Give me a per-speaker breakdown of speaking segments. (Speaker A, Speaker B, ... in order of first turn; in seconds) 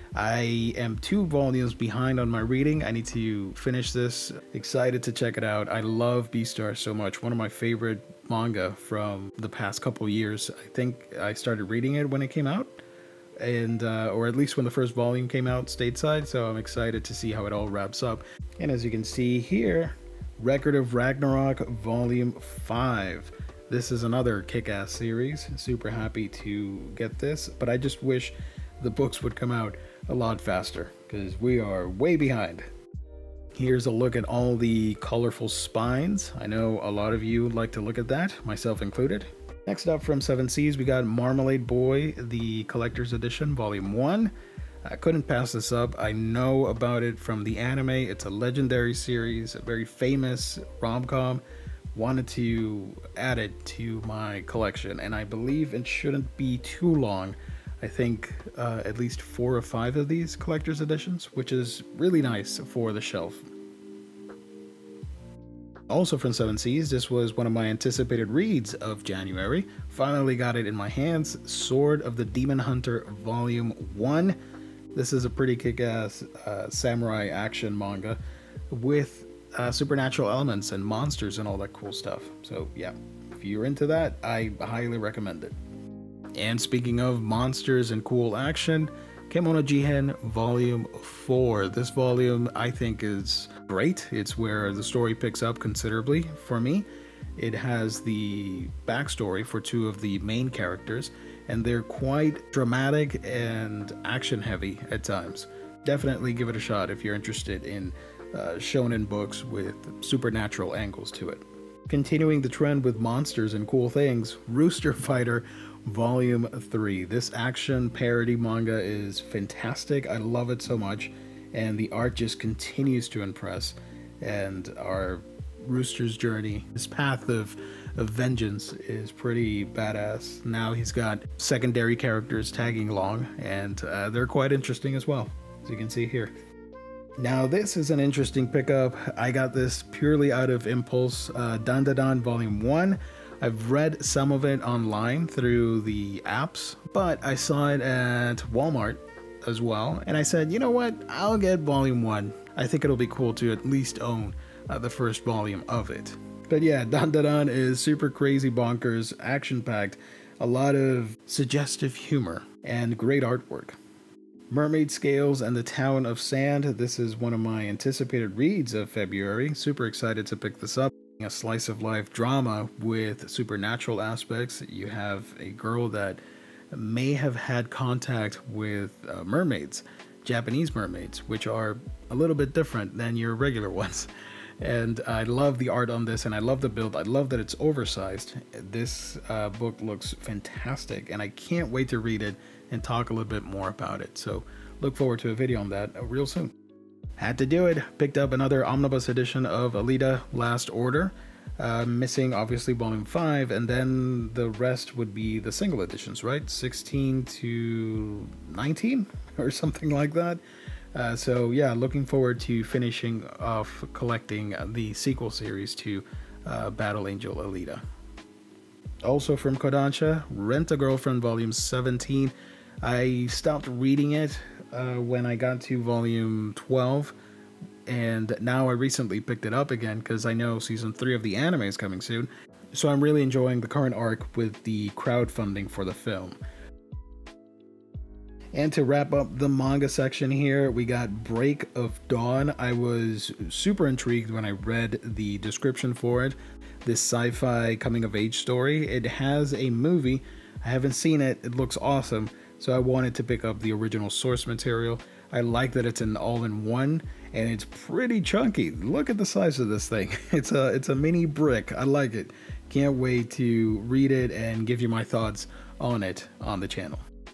Speaker A: 0.1-12.7, 13.4-32.7, 33.5-44.3, 44.8-51.4, 51.9-63.5, 65.9-74.4, 74.9-85.5, 86.3-136.3, 137.2-163.8, 164.5-176.2, 176.7-196.5, 197.2-210.4, 210.9-217.8, 219.0-227.1, 227.9-236.4, 238.5-267.0